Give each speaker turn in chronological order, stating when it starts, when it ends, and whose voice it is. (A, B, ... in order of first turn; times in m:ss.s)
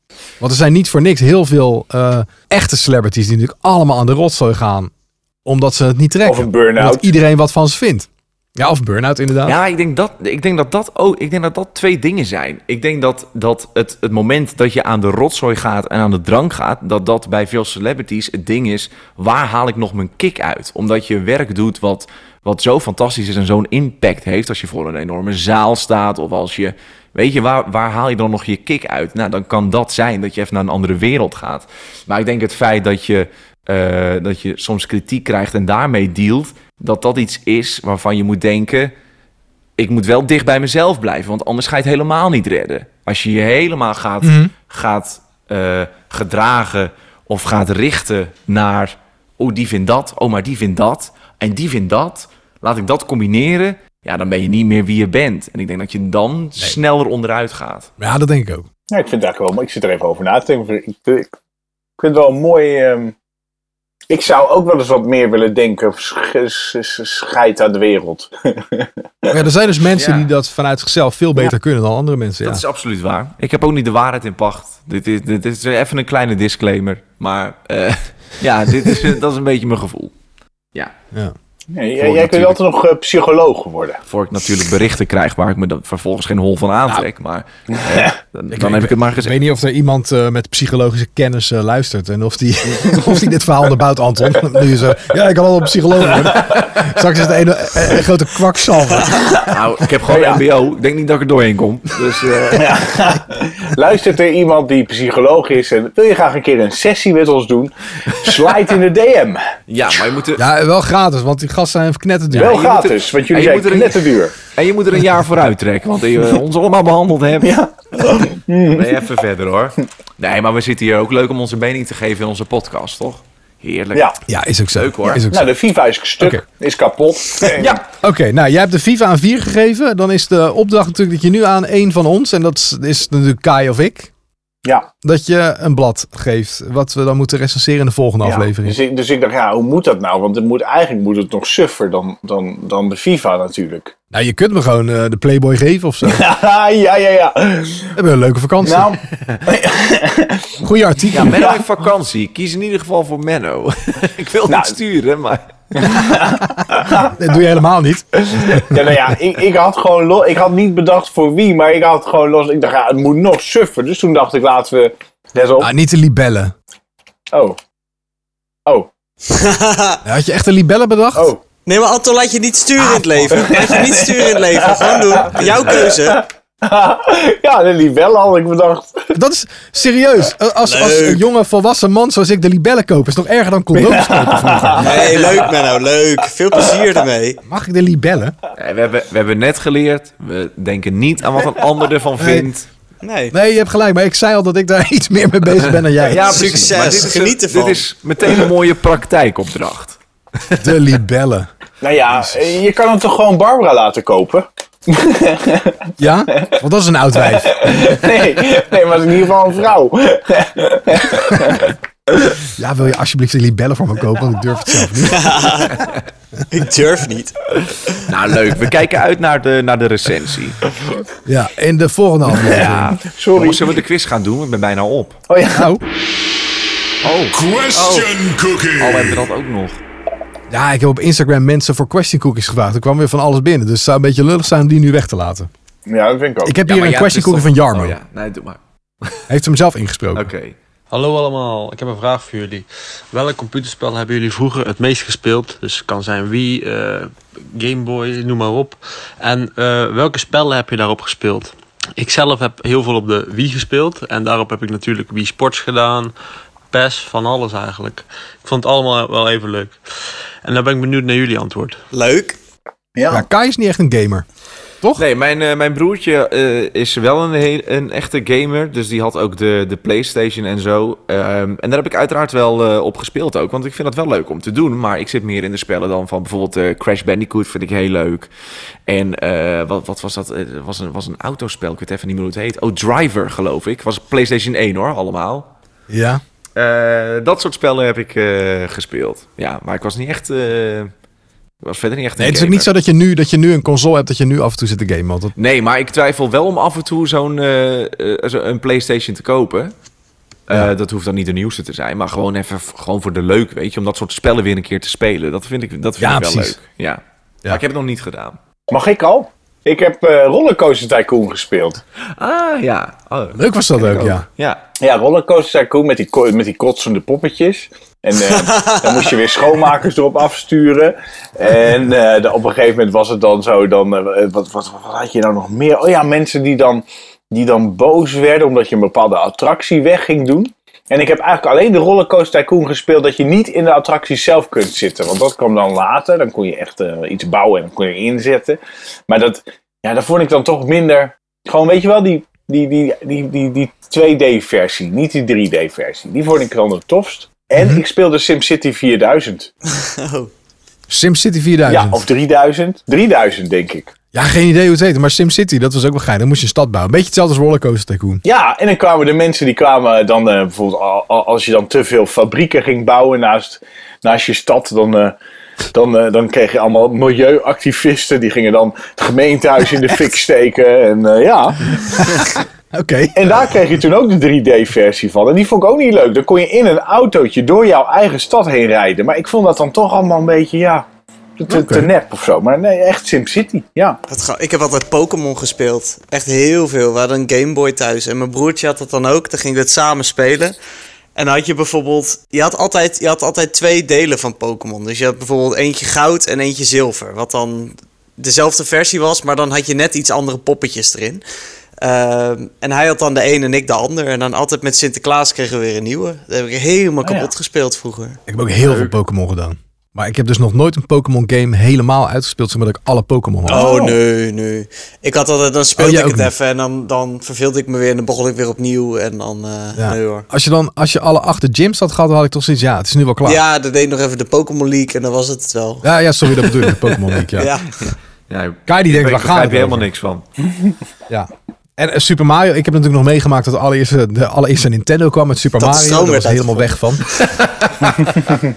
0:00.4-0:04.9 A
0:05.4-0:09.6 A
0:06.2-0:07.1 B
0:09.4-0:38.9 C
0:39.8-0:57.9 C
0:44.2-0:44.5 A
0:58.0-0:58.7 A
0:58.9-1:01.3 B
1:02.0-1:03.1 B
1:04.1-1:09.4 B
1:09.3-1:12.6 A
1:10.0-1:10.3 C
1:12.4-1:20.1 C
1:21.7-1:24.0 B
1:22.0-1:22.6 C
1:24.1-1:29.4 C
1:28.5-1:39.3 A
1:39.0-1:39.4 B
1:39.4-1:42.8 C
1:40.1-1:40.4 B
1:42.5-1:49.4 B
1:49.7-1:50.4 C
1:50.4-1:52.6 A
1:52.3-1:57.5 C
1:52.3-1:54.3 B
1:57.4-1:59.0 B
1:58.7-2:04.1 C
2:04.3-2:05.5 A
2:04.7-2:05.2 C
2:05.3-2:07.8 B
2:07.6-2:07.8 C
2:08.0-2:14.1 A
2:15.0-2:18.8 A
2:18.2-2:23.9 B
2:24.1-2:26.2 A
2:26.0-2:27.9 B
2:27.9-2:29.0 A
2:28.6-2:30.6 B
2:30.6-2:31.4 A
2:31.1-2:35.5 C
2:31.3-2:31.6 B
2:34.5-2:34.7 B
2:35.7-2:37.2 B
2:36.6-2:38.9 A
2:38.2-2:45.7 B
2:45.6-2:46.5 A
2:47.3-2:47.6 B
2:49.2-2:50.0 D
2:50.0-2:51.3 A
2:51.1-2:51.4 B
2:51.6-2:56.2 D
2:52.8-2:53.3 A
2:53.3-2:59.1 B
2:59.1-3:05.2 A
3:00.6-3:01.2 D
3:03.7-3:05.4 B
3:04.8-3:07.4 D
3:07.4-3:08.3 A
3:08.5-3:12.7 C
3:12.2-3:12.5 A
3:13.0-3:13.4 D
3:13.3-3:17.1 A
3:16.0-3:20.0 C
3:16.1-3:17.8 D
3:20.6-3:21.5 A
3:21.8-3:26.6 B
3:26.0-3:27.8 A
3:27.3-3:32.2 B
3:32.4-3:35.8 A
3:35.1-3:35.8 D
3:36.5-3:38.0 D
3:38.0-3:40.6 C
3:41.2-3:43.0 A
3:42.4-3:43.6 B
3:42.5-3:45.2 C
3:45.3-3:45.7 B
3:45.5-3:45.8 A
3:47.0-3:49.8 C
3:50.5-3:55.5 A
3:55.9-3:56.6 B
3:56.4-3:58.0 A
3:56.6-3:59.2 C
3:59.3-4:00.3 A
4:00.1-4:00.6 C
4:00.9-4:16.1 E
4:16.7-4:19.8 E
4:20.4-4:21.8 E
4:21.9-4:22.4 D
4:23.0-4:23.2 B
4:23.1-4:24.2 A
4:25.0-4:38.3 C
4:38.9-4:45.5 C
4:45.9-4:46.2 A
4:46.6-4:50.9 C
4:51.6-4:52.7 C
4:52.2-4:55.3 A
4:55.4-4:59.7 C
5:00.5-5:08.4 C
5:06.0-5:06.6 A
5:08.7-5:11.8 B
5:12.1-5:14.6 C
5:13.3-5:14.2 A
5:14.8-5:49.5 B
5:18.2-5:19.0 D
5:47.6-5:47.8 A
5:49.7-5:50.3 D
5:50.9-5:52.0 A
5:51.7-5:53.9 B
5:54.1-5:58.2 A
5:58.2-6:05.2 B
6:05.7-6:12.2 B
6:12.0-6:13.3 A
6:13.1-6:20.8 B
6:21.4-6:24.0 B
6:21.5-6:21.9 A
6:24.1-6:30.5 D
6:31.1-6:41.2 D
6:41.8-6:48.2 D
6:47.0-6:47.3 B
6:48.3-6:53.6 A
6:48.6-6:48.9 C
6:53.5-6:54.0 B
6:53.5-7:00.2 D
6:55.8-6:56.3 A
6:59.8-7:03.4 A
7:03.2-7:07.8 D
7:05.8-7:07.5 A
7:08.3-7:10.2 C
7:08.7-7:09.9 A
7:11.1-7:17.1 A
7:15.6-7:16.7 D
7:17.2-7:18.4 C